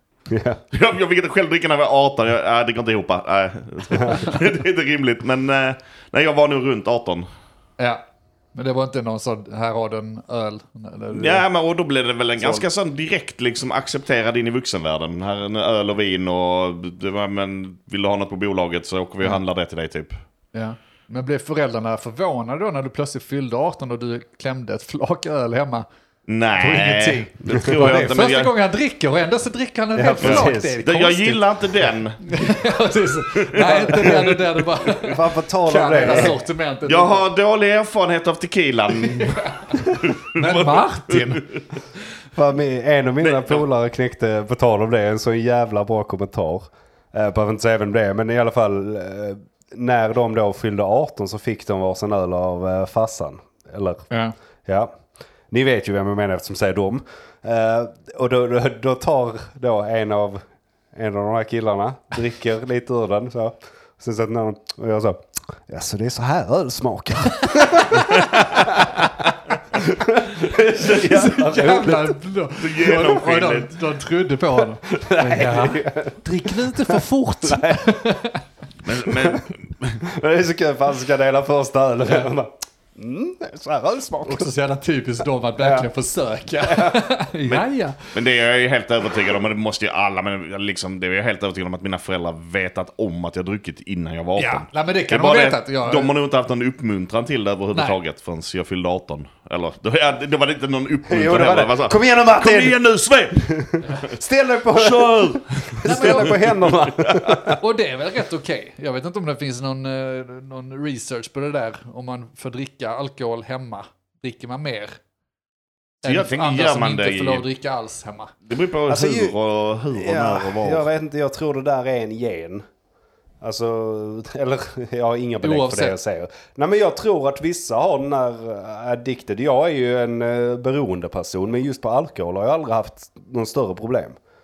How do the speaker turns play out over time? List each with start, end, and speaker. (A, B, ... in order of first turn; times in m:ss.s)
0:00.3-0:00.6 A
0:00.7-0:07.3 B
0:08.5-0:11.4 C
0:11.1-0:20.1 B
0:20.5-0:25.8 C
0:26.3-0:28.5 B
0:26.6-0:31.4 C
0:27.5-0:28.1 A
0:29.9-0:30.8 A
0:30.2-0:32.2 B
0:32.2-0:37.2 C
0:33.3-0:35.1 B
0:35.0-0:36.4 A
0:36.8-0:41.6 B
0:39.1-0:41.4 C
0:42.4-0:54.1 A
0:43.2-0:43.6 B
0:54.6-0:54.9 A
0:55.5-1:00.4 A
1:00.9-1:12.2 A
1:10.8-1:18.4 C
1:12.6-1:13.8 B
1:14.8-1:18.0 A
1:18.8-1:20.0 B
1:19.2-1:19.4 A
1:20.0-1:24.5 A
1:24.2-1:28.0 C
1:25.6-1:25.9 A
1:26.6-1:27.0 A
1:27.5-1:44.1 B
1:34.4-1:36.1 C
1:41.1-1:42.8 A
1:43.4-1:47.6 A
1:44.7-1:47.5 B
1:45.8-1:46.5 C
1:47.6-1:55.0 C
1:56.0-1:57.4 B
1:56.0-1:58.3 C
1:58.4-2:00.8 B
1:58.9-1:59.3 A
1:59.9-2:02.6 A
2:03.4-2:14.2 A
2:05.4-2:06.0 C